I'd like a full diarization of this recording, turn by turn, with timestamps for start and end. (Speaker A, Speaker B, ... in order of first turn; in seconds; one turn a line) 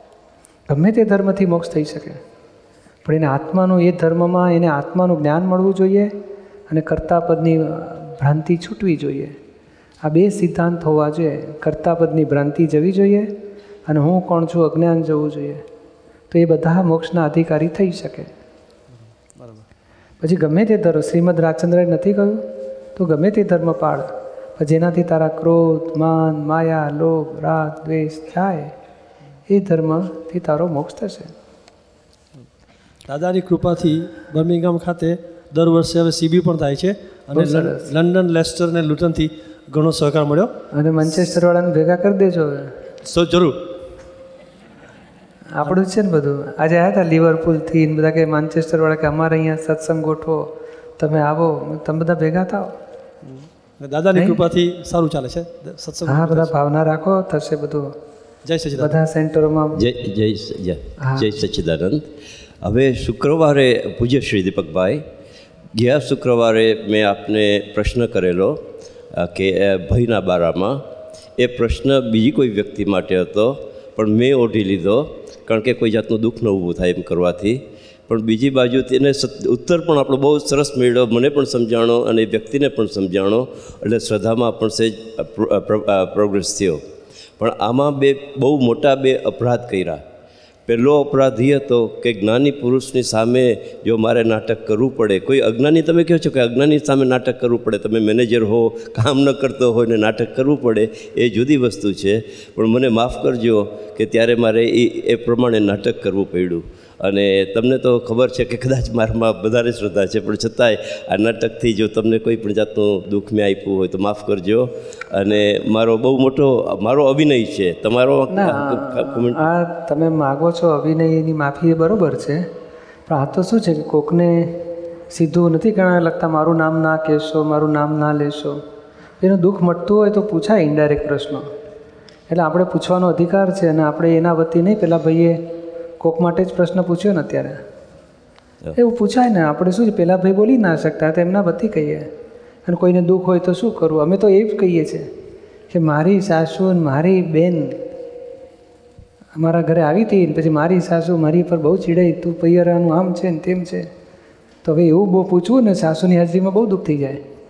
Speaker A: 0.7-2.2
Speaker A: 3.0-6.1
Speaker A: 6.7-9.3
Speaker A: 10.0-13.3
Speaker A: 13.8-15.6
Speaker A: 16.3-18.3
Speaker B: 18.9-19.6
Speaker A: 20.2-28.7
Speaker A: 29.5-31.3
Speaker B: 33.1-40.5
Speaker A: 37.3-37.9
Speaker A: 40.7-42.7
Speaker B: 43.0-43.6
Speaker A: 45.5-52.7
Speaker B: 53.2-56.5
Speaker A: 54.1-54.5
Speaker A: 56.0-57.9
Speaker B: 58.4-58.9
Speaker A: 58.7-59.8
Speaker C: 59.8-62.1
Speaker A: 61.0-61.4
Speaker C: 62.6-65.0
Speaker C: 65.7-68.6
Speaker C: 69.1-70.8
Speaker C: 71.4-86.8
Speaker C: 87.4-90.0
Speaker C: 90.7-119.4
Speaker A: 118.3-122.5
Speaker A: 123.1-128.6
Speaker A: 129.2-131.4
Speaker A: 132.3-135.4
Speaker A: 136.0-137.6
Speaker A: 138.7-142.1
Speaker A: 142.7-145.1
Speaker A: 145.7-147.8
Speaker A: 149.4-153.9
Speaker A: 154.6-157.2